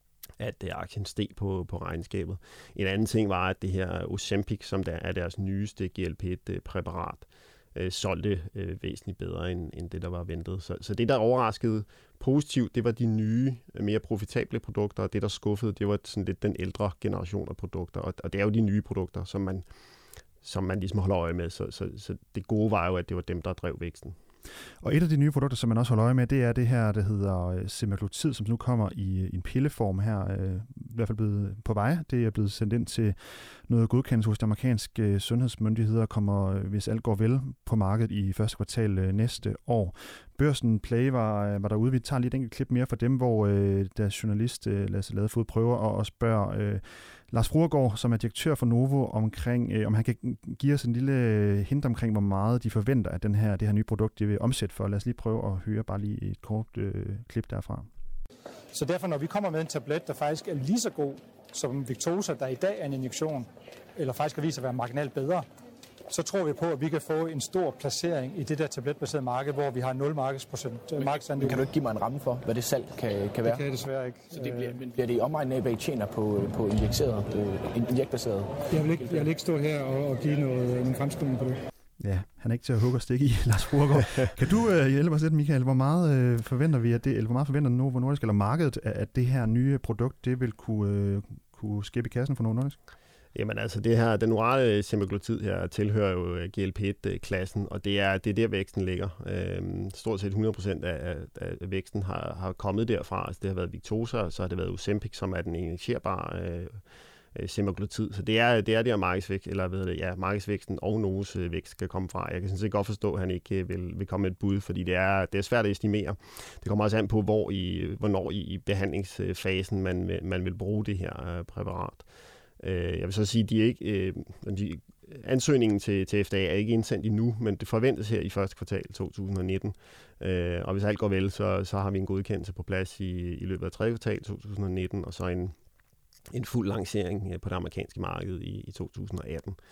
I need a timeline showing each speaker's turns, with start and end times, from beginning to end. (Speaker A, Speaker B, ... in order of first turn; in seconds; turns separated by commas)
Speaker A: 0.4-19.6, Speaker A: 20.4-24.1, Speaker B: 24.8-57.9, Speaker C: 58.7-65.5, Speaker C: 66.1-71.7, Speaker D: 71.0-73.7, Speaker C: 73.4-74.8, Speaker D: 74.3-79.3, Speaker C: 78.7-81.6, Speaker B: 82.0-92.8, Speaker A: 93.3-106.8, Speaker A: 107.3-122.1, Speaker A: 122.6-135.5, Speaker A: 136.3-139.6